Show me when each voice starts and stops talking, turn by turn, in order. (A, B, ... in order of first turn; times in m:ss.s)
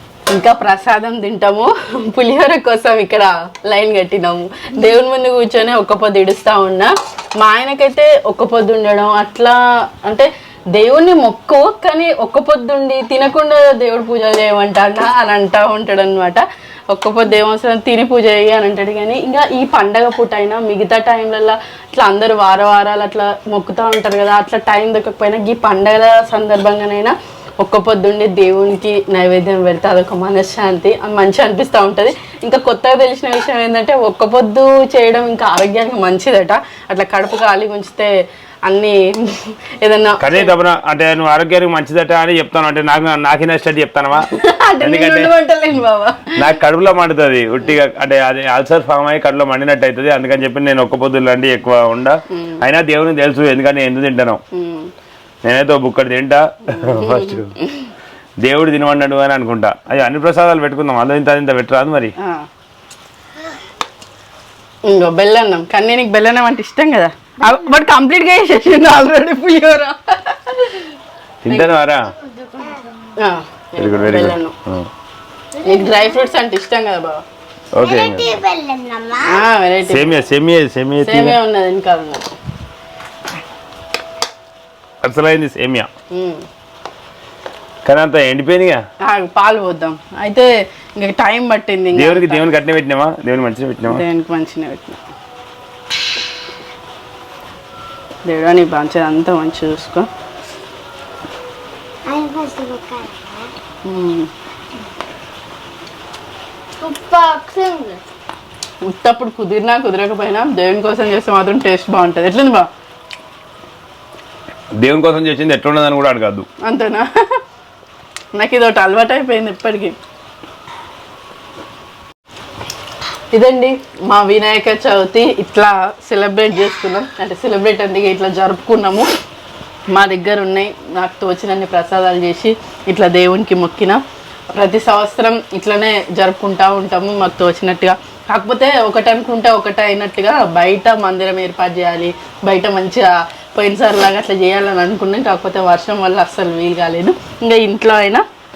0:00.3-0:38.1 A
0:38.6-0:40.5 A
0:40.2-0:44.3 B
0:44.2-0:46.5 A
0:44.8-0:45.3 B
0:46.4-0:54.4 B
0:52.3-0:52.6 A
0:54.5-0:54.9 A
0:55.4-0:57.5 B
0:56.7-0:57.9 A
0:58.4-1:02.1 B
1:02.2-1:02.5 A
1:04.8-1:10.9 A
1:11.4-1:12.1 B
1:12.2-1:12.9 C
1:13.2-1:14.5 A
1:13.8-1:14.9 B
1:15.6-1:17.2 A
1:15.6-1:16.1 C
1:17.7-1:18.4 B
1:17.8-1:19.4 C
1:19.3-1:20.3 A
1:19.9-1:21.4 B
1:21.0-1:22.3 A
1:25.0-1:25.9 B
1:26.1-1:26.4 A
1:27.8-1:28.8 B
1:29.0-1:32.4 A
1:31.9-1:34.0 B
1:33.9-1:35.0 A
1:38.2-1:40.1 A
1:42.1-1:43.5 C
1:43.8-1:44.3 A
1:46.8-1:48.0 C
1:48.8-1:52.7 A
1:54.8-1:56.5 B
1:56.6-1:57.1 A
1:58.3-2:00.0 A
2:03.3-2:09.0 A
2:09.9-2:14.0 A
2:14.5-2:28.2 A